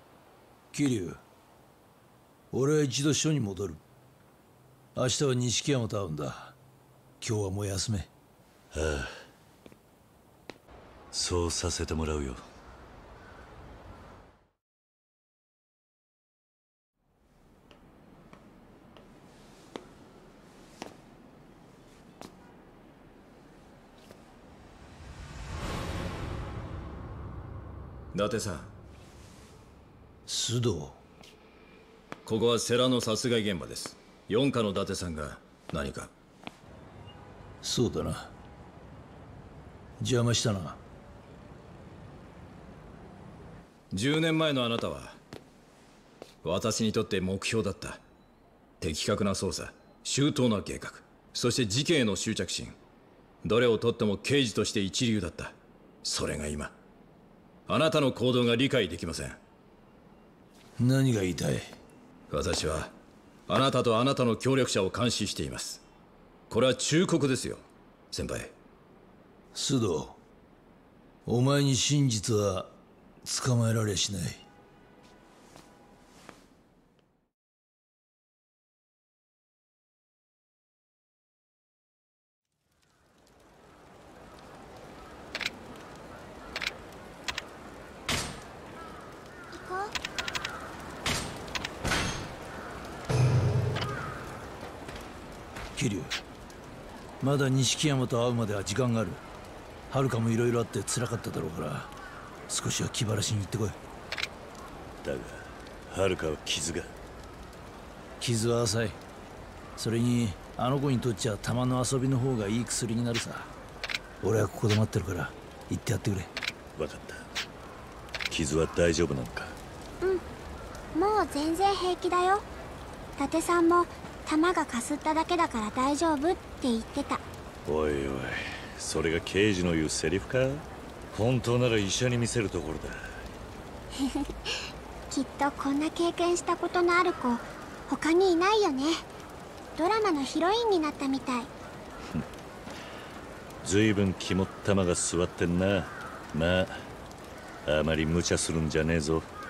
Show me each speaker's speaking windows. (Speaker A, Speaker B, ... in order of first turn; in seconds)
Speaker A: 0.7-1.2, 2.5-3.8, 5.0-6.6, 7.2-8.1, 30.3-31.0, 37.6-38.3, 40.0-40.8, 60.8-61.8, 69.5-70.2, 71.3-74.5, 95.8-96.1, 97.2-99.2, 99.9-101.9, 102.5-103.8, 108.2-109.0, 109.8-113.5, 114.2-116.3
Speaker B: 8.7-9.2, 11.1-12.4, 105.0-106.9, 116.8-117.2, 118.3-119.6, 127.7-133.1, 143.6-146.9, 147.7-149.3
Speaker C: 28.1-28.7, 32.3-36.1, 43.9-45.2, 46.4-48.0, 48.8-52.8, 53.5-56.8, 57.7-59.4, 62.3-62.9, 63.5-65.8, 66.5-68.5
Speaker D: 89.5-89.9, 120.9-122.5, 123.2-127.2, 133.9-139.1, 139.8-141.5